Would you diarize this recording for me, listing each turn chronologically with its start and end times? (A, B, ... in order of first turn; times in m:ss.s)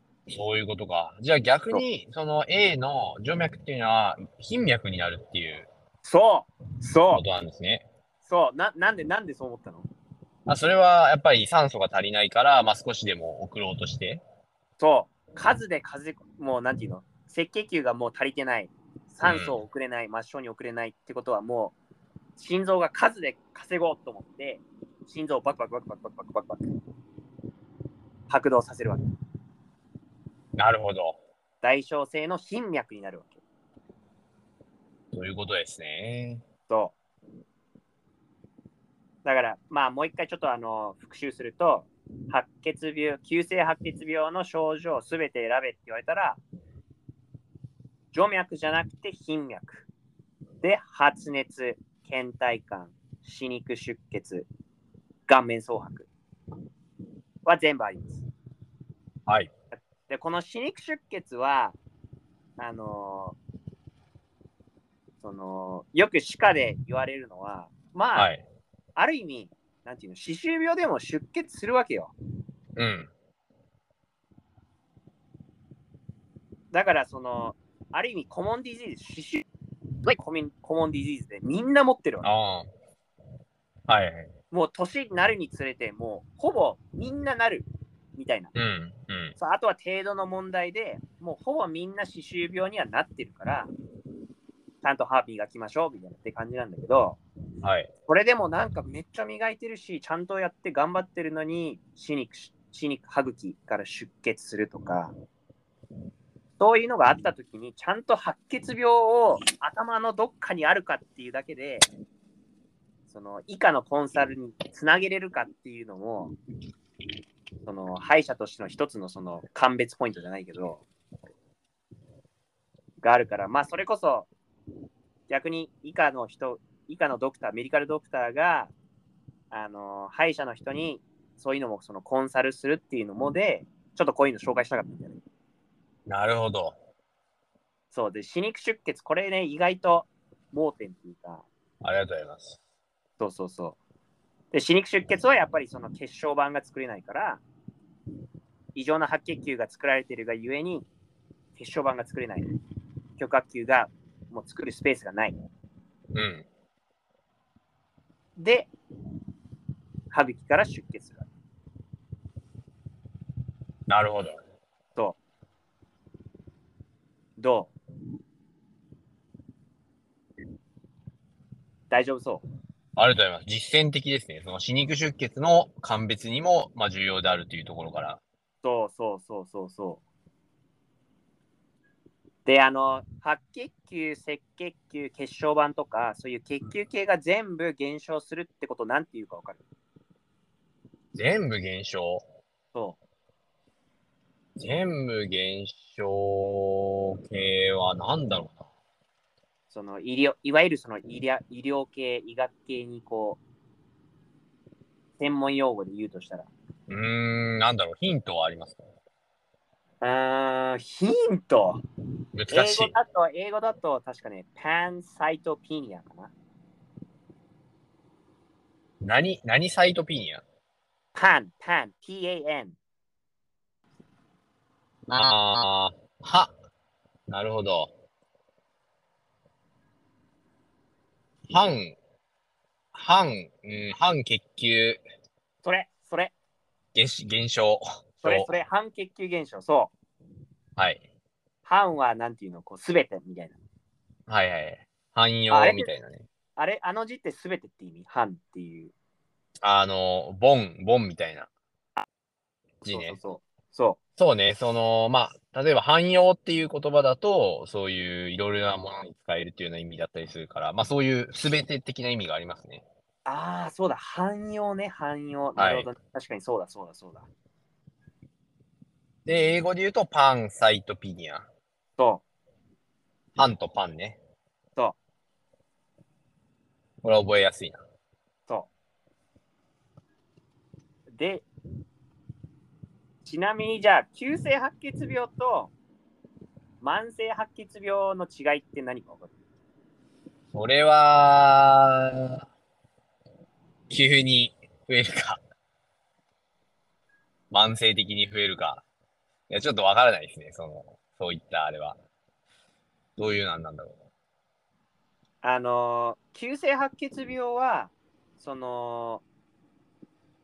0:00.3-0:05.7 A
0:06.0-0:07.2 B
0:07.1-0:07.9 A
0:08.2-0:09.9 B
0:10.5-0:14.2 A
0:14.8-0:21.8 B
0:19.2-0:19.6 A
0:22.4-0:26.7 B
0:28.3-0:29.0 B
0:30.6-0:31.2 A
0:31.6-0:33.4 B
0:35.1-0:36.4 A
0:36.7-0:37.0 B
0:39.2-0:46.4 B
0:48.1-0:49.9 B
0:50.6-0:54.5 B
0:55.3-0:56.1 B
0:57.4-0:58.2 B
0:59.7-1:01.8 B
1:02.6-1:03.4 B
1:05.2-1:08.3 B
1:08.2-1:08.4 A
1:09.0-1:12.1 B
1:12.8-1:13.1 A
1:16.7-1:19.4 B
1:20.1-1:22.3 B
1:22.2-1:22.7 A
1:23.9-1:24.3 A
1:24.5-1:28.5 B
1:28.6-1:29.4 A
1:29.4-1:33.7 B
1:34.8-1:37.2 B
1:37.6-1:37.9 A
1:38.1-1:45.1 B
1:46.6-1:51.9 B
1:53.1-1:56.3 B
1:57.6-2:00.8 B
2:03.0-2:04.3 B
2:05.3-2:08.7 B
2:09.5-2:15.2 B
2:16.1-2:16.8 A
2:17.9-2:21.5 B
2:21.8-2:22.6 A
2:23.2-2:23.8 B
2:24.5-2:27.4 B
2:28.8-2:30.9 B
2:31.6-2:32.5 B
2:33.2-2:35.4 B
2:36.2-2:36.5 A
2:38.4-2:38.7 B
2:40.1-2:41.3 B
2:43.9-2:44.4 A
2:47.4-2:47.7 B
2:51.9-2:52.4 B
2:53.0-2:58.2 A
2:58.6-3:00.0 B
3:02.5-3:09.6 B
3:11.1-3:12.2 A
3:14.6-3:18.6 A
3:19.7-3:23.4 B
3:25.2-3:26.5 B
3:26.9-3:28.8 A
3:30.0-3:31.8 B
3:32.4-3:33.0 A
3:32.5-3:36.3 B
3:39.0-3:40.4 A
3:41.2-3:42.8 B
3:45.1-3:46.5 A
3:47.3-3:47.9 A
3:51.5-3:52.0 A
3:52.9-3:55.0 A
3:55.6-3:56.3 B
3:57.0-3:58.5 A
3:58.2-3:59.9 B
4:00.8-4:01.0 A
4:01.6-4:03.6 B
4:04.3-4:06.2 A
4:05.5-4:05.9 B
4:06.6-4:08.9 B
4:09.6-4:11.5 A
4:12.8-4:13.2 A
4:12.9-4:14.0 B
4:14.2-4:22.8 A
4:23.2-4:27.3 B
4:25.6-4:25.9 A
4:29.3-4:31.5 A
4:32.0-4:32.2 B
4:33.4-4:34.2 A
4:37.0-4:37.8 A
4:41.1-4:41.5 B
4:43.2-4:45.7 B
4:46.8-4:49.3 B
4:50.5-4:52.4 A
4:53.9-4:55.4 A
4:57.5-4:58.8 A
4:59.5-5:02.0 A
5:03.2-5:04.0 A
5:05.4-5:09.2 B